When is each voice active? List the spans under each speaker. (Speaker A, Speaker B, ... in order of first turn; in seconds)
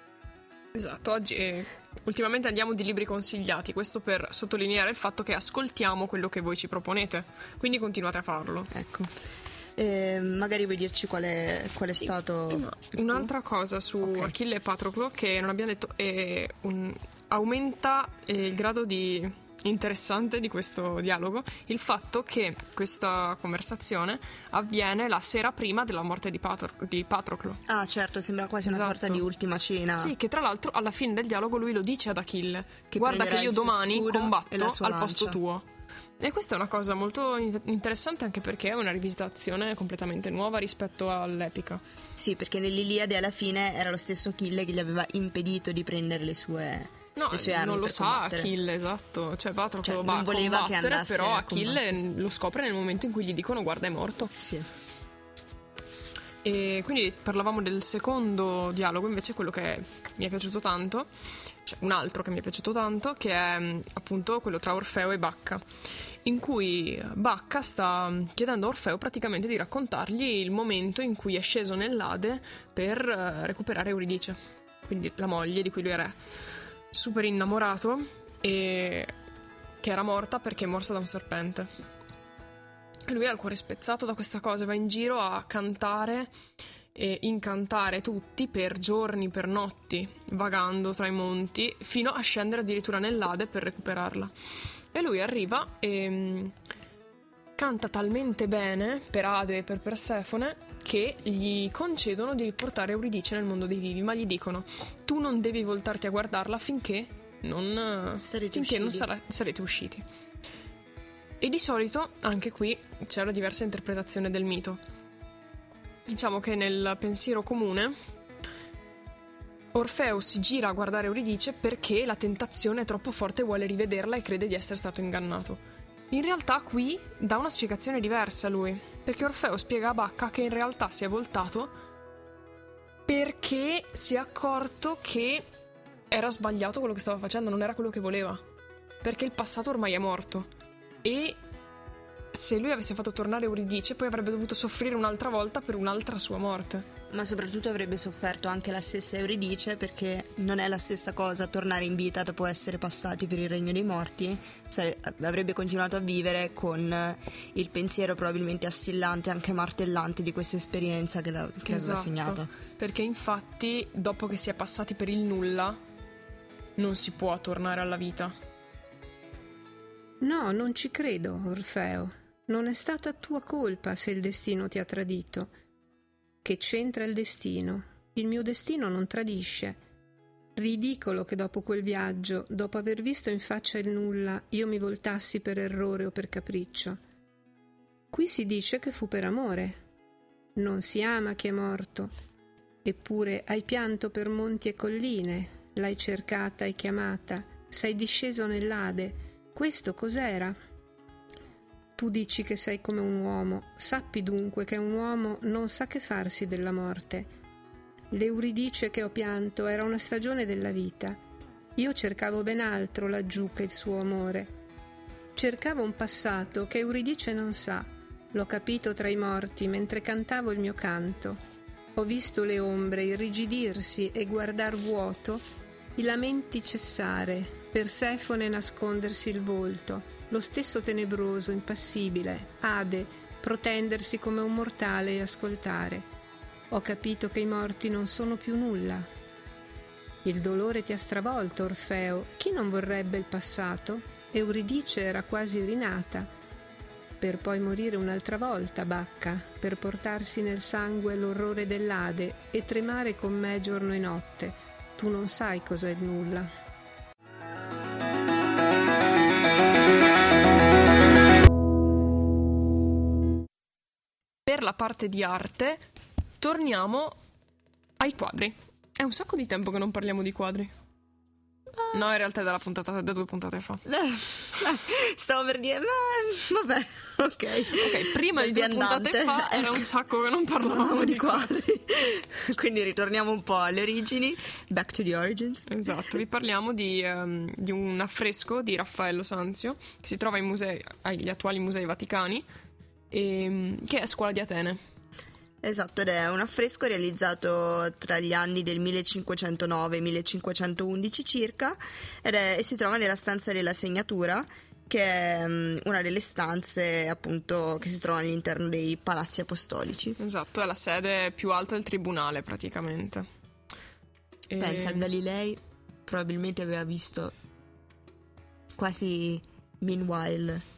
Speaker A: 0.7-8.7, 12.0-27.6, 28.6-29.2, 29.9-35.7, 36.2-41.8, 47.2-54.3, 56.4-61.1, 61.7-65.6, 66.2-76.2, 76.9-79.1, 79.8-81.7, 83.1-86.3, 87.0-94.3, 94.9-96.5, 97.6-110.0, 111.4-114.8, 116.1-117.9, 119.7-131.7, 133.1-135.5, 136.1-138.4, 139.0-140.5, 141.0-141.4, 142.3-146.9, 161.7-165.8, 166.8-168.3, 264.5-265.8, 266.4-267.2, 268.0-270.7, 271.9-273.8, 277.7-281.5, 285.7-292.5, 293.1-294.8, 310.2-313.2, 314.5-315.1
Speaker B: 8.7-9.1, 9.8-13.3, 14.1-14.3, 27.7-30.1, 32.9-35.4, 42.2-48.5, 49.8-51.8, 54.4-54.7, 108.2-109.1, 147.1-162.5, 273.9-279.9, 280.6-285.7, 295.6-310.2, 314.6-317.3, 318.8-320.6
Speaker C: 170.2-175.5, 176.4-179.8, 180.6-187.0, 188.1-189.8, 190.6-192.1, 192.8-200.6, 202.0-207.3, 208.1-211.2, 211.8-214.5, 215.3-221.4, 222.0-225.4, 226.0-236.1, 236.7-239.1, 240.2-246.3, 247.2-256.5